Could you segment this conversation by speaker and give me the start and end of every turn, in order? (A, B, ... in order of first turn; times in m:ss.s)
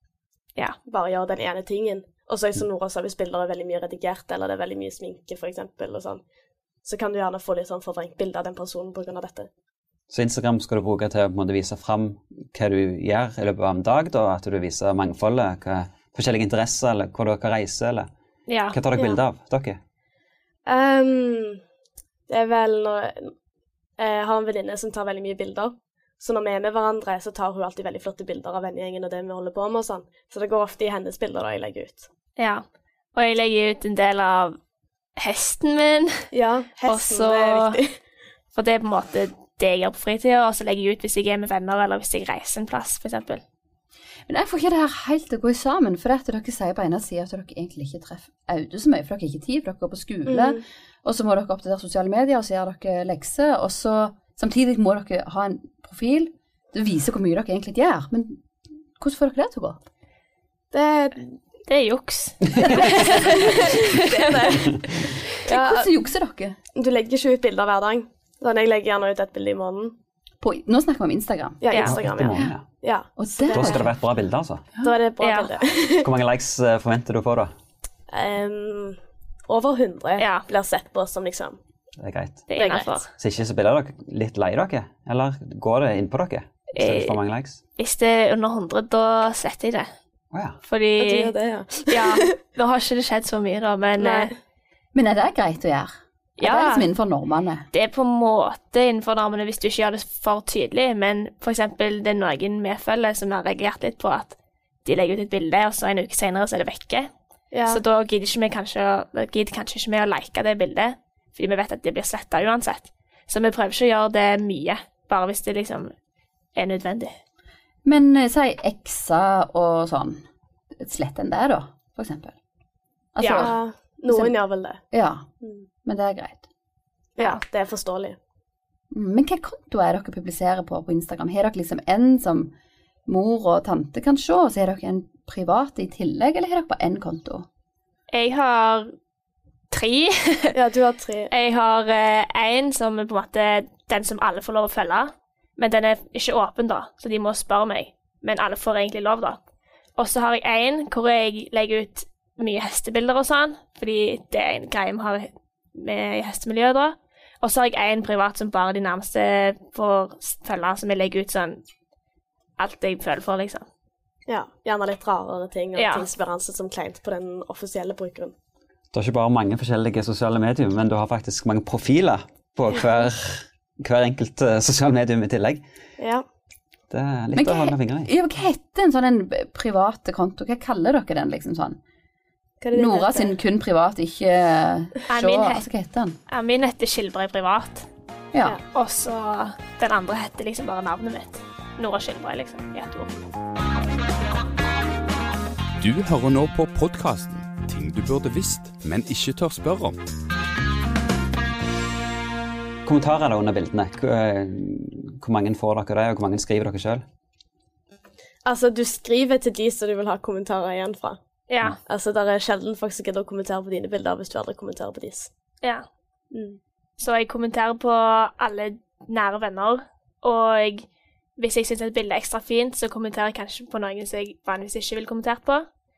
0:00.9-0:06.2 A
0:06.8-0:09.5 A
0:10.1-0:18.1 B
0:18.5-0:18.8 C
0:18.7-0:19.8 B
0:20.7-0:21.6 A
0:22.3-0:23.3 A
0:24.0-0:32.1 A
0:32.4-0:32.6 C
0:33.2-0:34.6 C
0:35.2-0:36.1 C
0:36.3-0:37.9 A
0:36.9-0:37.8 C
0:38.5-0:43.4 C
0:44.3-0:58.4 D
0:50.3-0:50.6 A
0:59.0-0:59.8 D
1:00.7-1:01.3 A
1:01.7-1:04.7 C
1:02.7-1:04.8 A
1:05.5-1:05.9 A
1:05.5-1:06.6 D
1:06.8-1:09.9 A
1:10.4-1:11.6 D
1:11.6-1:13.8 A
1:11.7-1:12.0 C
1:11.8-1:12.6 B
1:13.2-1:13.9 D
1:13.5-1:14.8 B
1:14.8-1:16.1 A
1:15.2-1:15.5 C
1:16.0-1:17.5 B
1:18.1-1:19.0 A
1:19.5-1:21.6 A
1:20.2-1:20.5 C
1:22.0-1:22.5 B
1:22.5-1:23.1 C
1:22.6-1:23.0 A
1:23.1-1:27.6 B
1:26.7-1:27.2 C
1:27.8-1:29.9 C
1:30.3-1:30.6 B
1:30.6-1:31.3 C
1:31.0-1:32.3 A
1:31.9-1:34.3 C
1:34.0-1:34.3 A
1:34.9-1:37.6 D
1:36.4-1:36.9 C
1:37.7-1:47.1 C
1:47.5-1:47.8 A
1:47.7-1:55.9 C
1:56.6-1:57.1 C
1:57.8-2:00.2 D
2:00.8-2:02.4 D
2:03.2-2:04.3 D
2:03.2-2:03.5 C
2:03.4-2:04.8 A
2:04.9-2:05.3 D
2:05.4-2:05.7 A
2:05.8-2:06.5 D
2:07.2-2:08.2 A
2:08.9-2:12.5 D
2:13.1-2:17.5 D
2:18.1-2:18.9 C
2:19.7-2:20.5 C
2:20.5-2:21.3 A
2:21.3-2:29.4 C
2:30.0-2:41.6 C
2:42.6-2:43.7 C
2:44.3-2:48.3 A
2:45.7-2:46.1 C
2:48.9-2:55.6 B
2:56.0-2:56.2 A
2:56.9-2:58.1 B
2:57.4-3:01.8 D
3:02.6-3:03.4 A
3:02.7-3:06.2 D
3:05.1-3:05.7 C
3:06.3-3:07.9 C
3:08.7-3:13.1 C
3:15.8-3:20.0 E
3:22.9-3:27.0 B
3:28.4-3:31.2 A
3:31.5-3:31.8 C
3:31.9-3:35.3 A
3:36.3-3:36.6 A
3:37.0-3:40.9 C
3:41.4-3:45.7 C